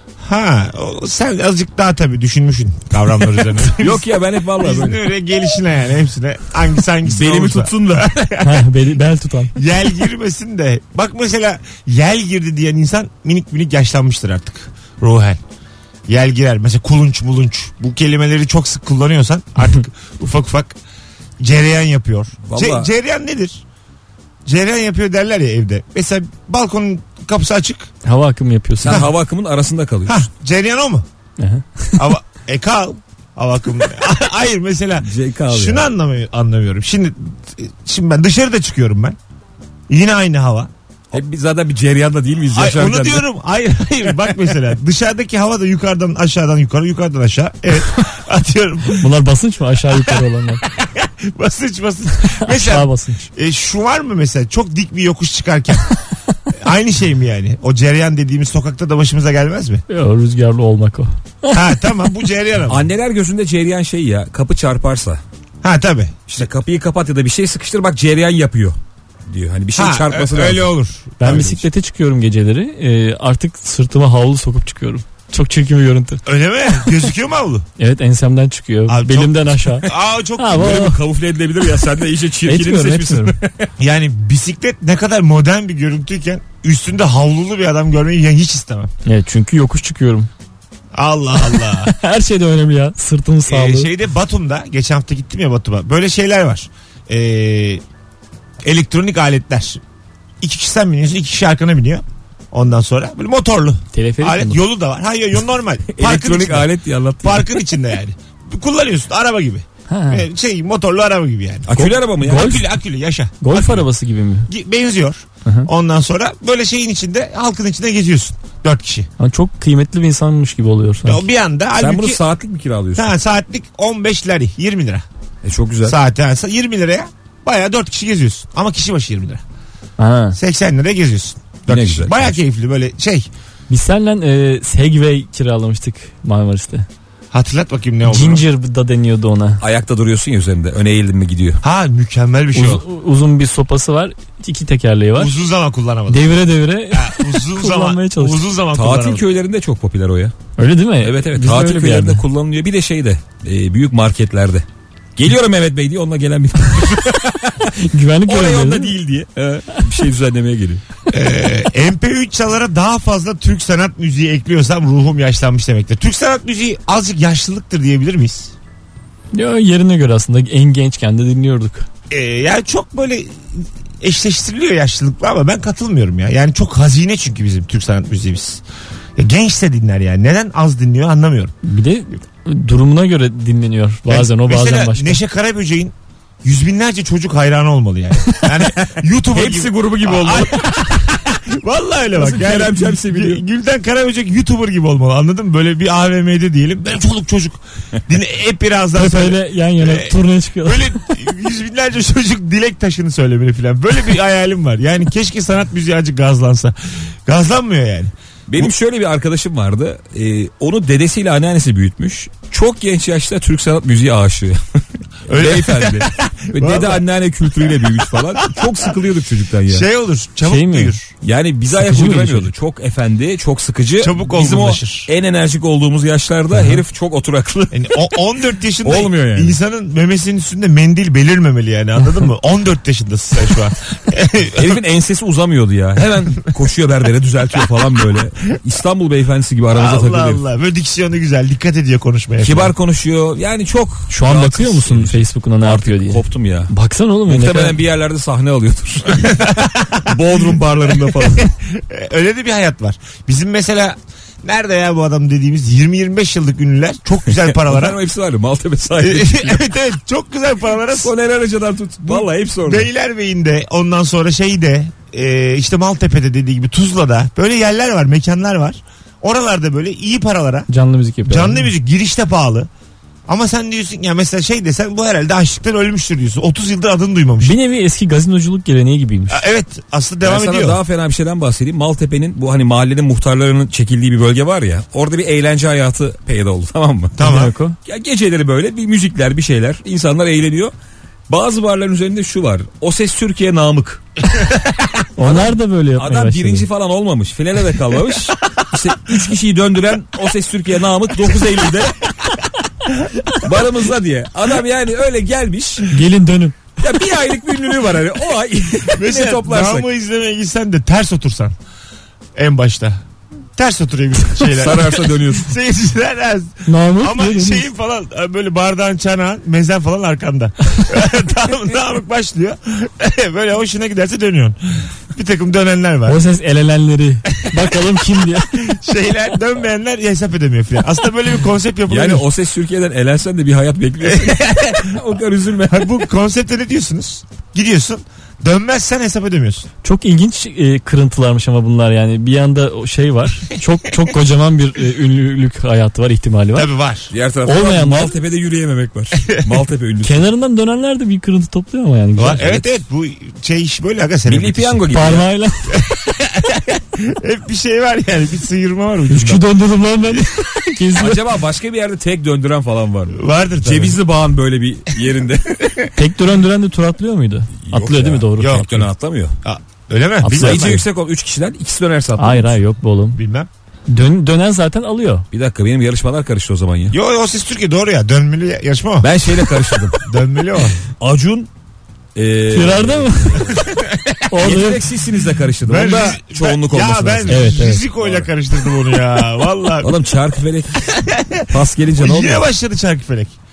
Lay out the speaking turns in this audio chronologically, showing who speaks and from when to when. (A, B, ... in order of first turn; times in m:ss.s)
0:00.2-0:08.7 A
0:03.7-0:05.0 B
0:07.0-0:08.1 B
0:08.4-0:09.6 C
0:09.5-0:15.4 A
0:16.1-0:20.7 A
0:21.4-0:23.6 A
0:22.4-0:22.9 B
0:24.4-0:27.9 A
0:28.0-0:29.0 C
0:28.8-0:30.3 B
0:28.9-0:29.1 A
0:30.1-0:31.0 A
0:31.4-0:31.6 C
0:32.0-0:39.2 A
0:35.0-0:35.9 B
0:39.9-0:40.7 A
0:41.1-0:43.2 B
0:42.5-0:49.1 A
0:49.0-0:50.6 C
0:50.6-0:55.9 A
0:52.2-0:53.3 C
0:56.5-0:59.8 A
0:59.9-1:01.6 C
1:01.5-1:02.9 A
1:02.7-1:05.2 B
1:05.6-1:06.5 A
1:06.3-1:08.8 B
1:09.3-1:10.7 B
1:09.8-1:11.6 A
1:11.2-1:16.2 C
1:11.2-1:11.6 B
1:16.2-1:17.6 A
1:17.8-1:21.0 C
1:18.9-1:20.8 A
1:20.5-1:23.7 B
1:22.4-1:23.4 C
1:23.8-1:28.9 A
1:29.0-1:30.3 C
1:30.9-1:31.9 A
1:31.8-1:33.9 C
1:33.4-1:37.8 A
1:38.6-1:39.8 A
1:40.4-1:46.7 A
1:43.9-1:44.6 C
1:45.9-1:47.6 B
1:47.2-1:53.9 A
1:49.9-1:50.2 C
1:51.7-1:52.6 B
1:52.2-1:52.6 C
1:53.4-1:54.5 C
1:54.5-1:59.1 A
1:59.2-2:01.2 C
2:01.0-2:02.2 A
2:01.8-2:03.1 B
2:03.0-2:05.0 A
2:05.4-2:06.0 B
2:05.8-2:09.4 A
2:10.0-2:10.4 C
2:10.3-2:13.3 A
2:11.7-2:12.4 B
2:13.7-2:16.9 C
2:17.3-2:18.4 A
2:18.0-2:19.6 C
2:19.6-2:21.6 B
2:21.6-2:22.8 A
2:22.5-2:25.4 C
2:25.2-2:29.3 A
2:26.1-2:28.4 C
2:28.7-2:30.3 B
2:30.6-2:32.2 C
2:31.0-2:34.6 B
2:35.2-2:37.7 B
2:37.7-2:39.0 C
2:38.2-2:40.8 B
2:41.1-2:48.5 A
2:49.3-2:51.9 C
2:52.1-2:58.6 A
2:59.2-3:01.5 A
3:01.6-3:05.2 C
3:04.1-3:26.7 A
3:09.3-3:10.7 B
3:12.1-3:13.4 B
3:18.9-3:21.0 C
3:27.2-3:28.1 A
3:28.5-3:34.6 B
3:35.3-3:37.0 A
3:35.3-3:39.8 B
3:37.6-3:38.9 A
3:39.7-3:41.1 A
3:40.4-3:41.0 C
3:41.2-3:48.2 B
3:41.7-3:42.5 C
3:44.0-3:45.1 A
3:46.5-3:46.8 C
3:47.7-3:54.8 A
3:48.8-3:49.6 B
3:54.5-4:00.4 B
3:59.7-4:02.7 A
4:02.4-4:06.7 B
4:04.1-4:07.8 C
4:07.3-4:11.5 B
4:09.2-4:10.3 A
4:10.9-4:18.0 A
4:17.4-4:19.7 B
4:19.0-4:21.1 A
4:20.9-4:22.9 B
4:22.0-4:30.7 A
4:30.7-4:31.7 C
4:31.2-4:32.7 A
4:33.3-4:37.6 A
4:37.4-4:39.4 C
4:39.3-4:40.8 A
4:40.2-4:47.2 B
4:47.2-4:47.5 A
4:47.2-4:47.8 C
4:47.8-4:50.7 B
4:51.3-4:54.0 B
4:55.2-4:56.7 C
4:55.2-5:01.9 B
5:03.3-5:05.9 B
5:05.9-5:06.7 C
5:06.8-5:09.9 B
5:08.9-5:11.5 A
5:12.4-5:13.0 A
5:13.6-5:26.2 A
5:14.4-5:15.5 B
5:16.7-5:17.7 C
5:26.0-5:28.5 C
5:28.5-5:32.2 A
5:31.9-5:35.9 B
5:34.0-5:35.0 A
5:35.7-5:39.7 A
5:39.8-5:46.7 C
5:46.5-5:47.1 A
5:47.1-5:50.2 B
5:47.4-5:48.2 C
5:50.0-5:52.6 C
5:52.2-5:54.8 A
5:54.2-5:55.3 B
5:54.9-5:55.7 C
5:55.7-5:59.4 A
5:59.1-6:01.2 C
6:01.0-6:05.9 B
6:03.1-6:04.0 A
6:05.9-6:08.6 C
6:07.6-6:09.3 B
6:08.4-6:08.9 A
6:09.4-6:10.8 A
6:10.2-6:10.8 C
6:10.3-6:12.6 B
6:12.2-6:13.2 C
6:13.1-6:13.5 A
6:13.9-6:15.2 C
6:15.3-6:17.0 B
6:16.9-6:19.2 A
6:19.0-6:20.0 B
6:20.0-6:20.8 A
6:21.0-6:21.5 B
6:22.1-6:23.6 B
6:22.5-6:23.5 C
6:23.6-6:24.2 A
6:24.3-6:24.8 C
6:24.4-6:28.3 B
6:25.6-6:30.0 A
6:27.3-6:27.8 C
6:29.8-6:32.4 B
6:30.8-6:33.4 A